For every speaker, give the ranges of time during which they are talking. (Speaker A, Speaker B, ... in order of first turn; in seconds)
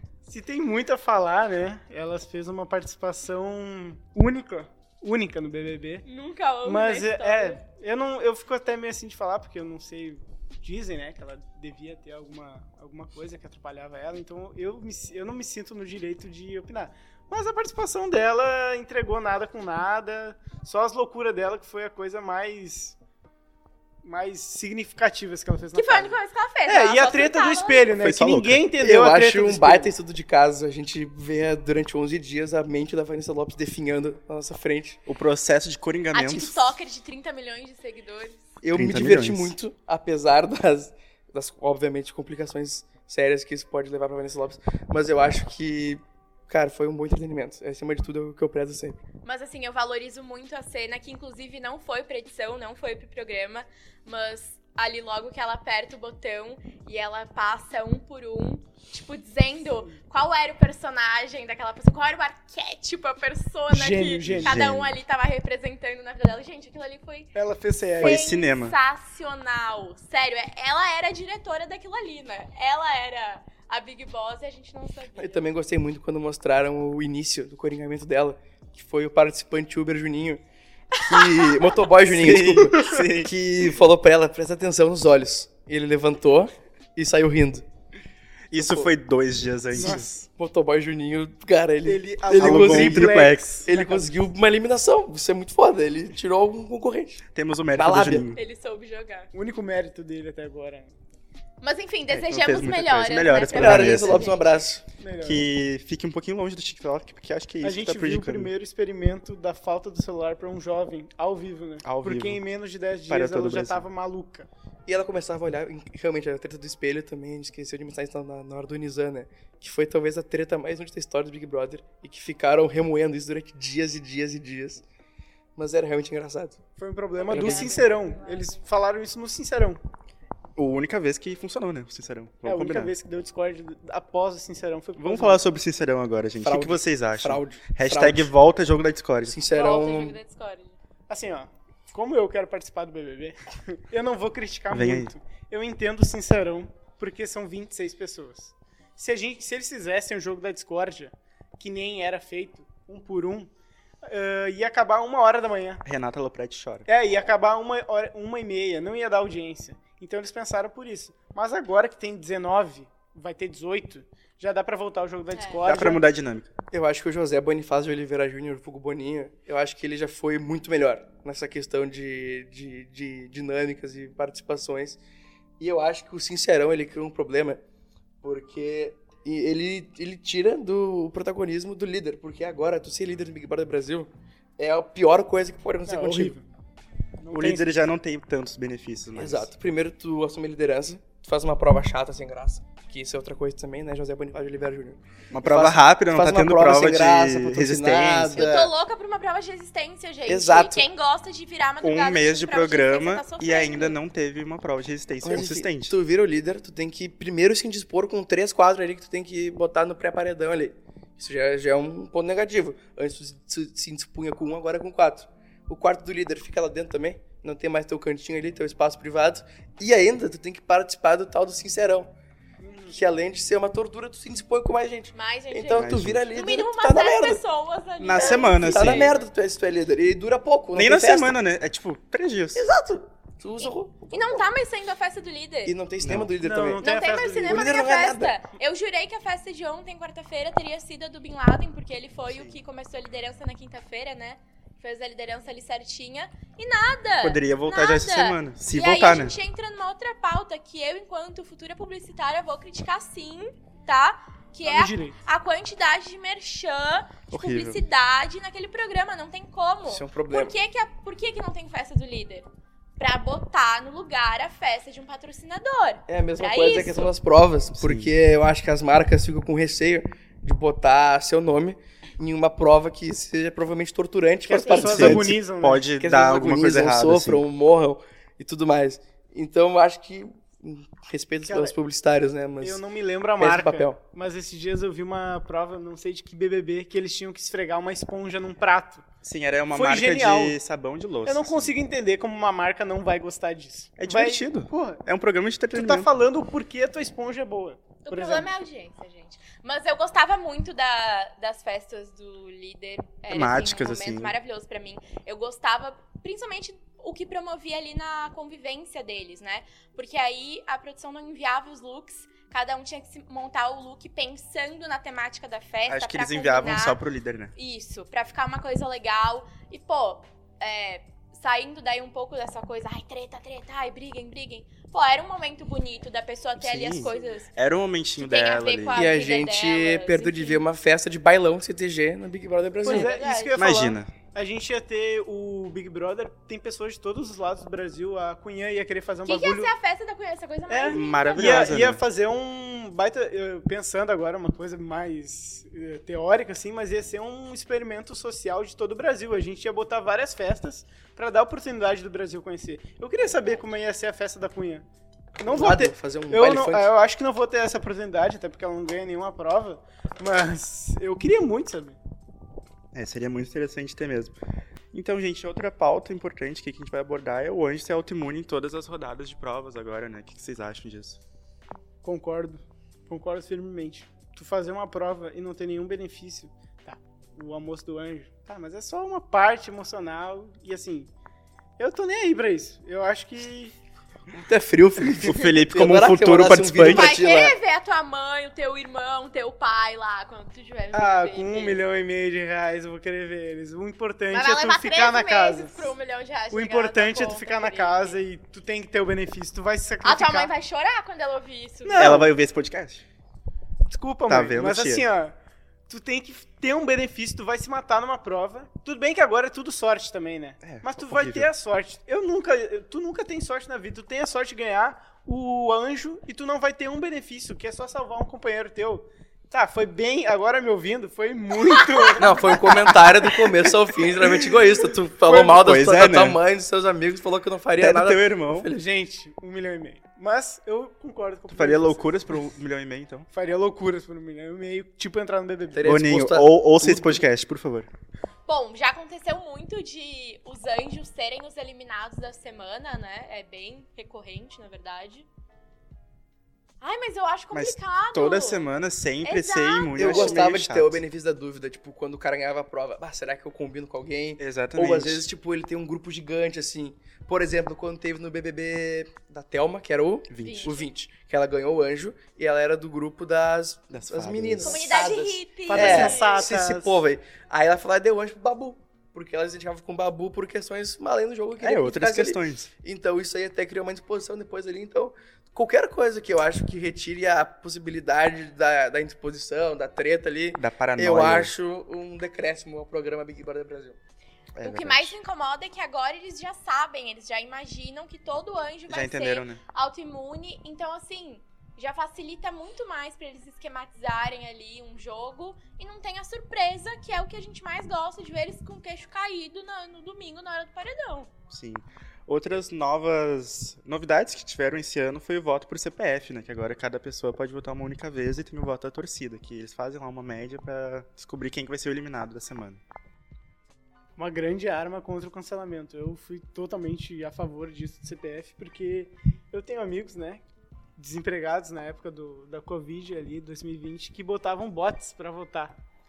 Speaker A: 0.2-6.0, 6.6-23.0, 24.0-29.9, 63.7-64.6, 67.3-68.2, 89.8-90.3, 91.8-94.2, 99.3-100.9, 105.0-105.5, 107.6-114.5, 126.8-129.8, 132.4-135.4, 141.1-153.5, 154.0-155.8, 156.9-166.0, 185.9-186.5, 187.2-187.7, 222.6-223.0, 236.4-237.7, 254.7-255.2, 274.5-275.9, 281.4-281.8, 282.6-289.1, 289.7-290.6, 291.3-295.0, 295.7-298.5, 332.8-339.7, 340.7-354.9, 355.4-362.0, 372.0-381.1, 381.8-383.8, 390.9-395.9, 396.5-400.5, 401.9-402.3, 403.9-405.4, 405.9-422.9, 428.7-432.4, 433.3-435.9, 465.7-467.0, 514.2-520.4, 521.0-525.8
Speaker B: 6.0-7.6, 25.7-27.9, 36.1-38.5, 49.2-67.3, 68.0-75.5, 81.0-81.7, 98.3-99.3, 101.6-104.6, 127.2-128.6, 139.5-140.8, 165.3-165.6, 198.3-204.0, 225.2-229.3, 234.1-235.8, 236.8-262.5, 263.0-267.1, 298.1-317.0, 317.6-327.5, 328.2-330.6, 332.9-333.6, 339.2-341.8, 353.3-353.6, 386.8-391.8, 394.3-398.2, 400.0-402.3, 421.7-422.2, 438.5-445.3, 446.8-448.6, 449.2-450.4, 460.4-460.9, 464.6-466.5, 484.6-501.3
Speaker C: 27.9-28.6, 35.1-36.7, 38.7-39.5, 64.2-65.0, 68.0-68.8, 82.1-83.3, 88.5-90.1, 92.3-93.5, 97.3-98.4, 102.1-104.2, 105.2-108.5, 111.8-112.4, 113.1-113.8, 127.3-127.7, 130.6-132.9, 135.0-139.4, 144.7-145.1, 155.8-156.9, 165.7-166.5, 187.3-189.5, 195.3-198.5, 201.8-205.9, 225.8-226.3, 228.0-229.1, 230.7-232.7, 236.0-236.3, 242.3-242.6, 247.2-249.4, 257.3-257.8, 267.8-268.1, 274.8-277.4, 289.2-291.7, 294.0-296.1, 303.3-304.4, 315.9-317.6, 326.6-329.0, 333.6-334.1, 340.9-342.0, 362.9-364.3, 364.9-371.2, 385.2-387.1, 402.0-403.0, 404.3-405.1, 410.6-411.5, 425.2-426.4, 427.8-428.7, 431.5-433.3, 435.9-437.9, 447.5-451.0, 454.4-455.3, 460.3-460.7, 463.9-464.8, 465.8-466.1, 471.6-472.7, 480.6-481.5, 484.6-485.2, 488.9-489.6, 501.5-512.8
Speaker D: 28.8-35.0, 38.6-49.0, 75.2-80.4, 81.1-87.7, 88.5-88.9, 89.8-97.2, 97.8-98.3, 103.5-104.8, 114.9-124.8, 125.6-126.6, 127.3-127.7, 136.4-138.3, 139.2-140.2, 166.7-175.0, 175.6-177.6, 178.2-186.4, 189.2-198.7, 200.3-200.9, 205.2-222.1, 222.9-227.4, 228.1-231.4, 232.6-234.4, 235.7-236.8, 237.4-238.4, 259.9-260.6, 266.1-275.4, 276.0-282.8, 283.4-284.0, 328.9-333.2, 355.4-356.9, 384.3-387.6, 422.1-428.8, 435.7-437.2, 450.0-484.0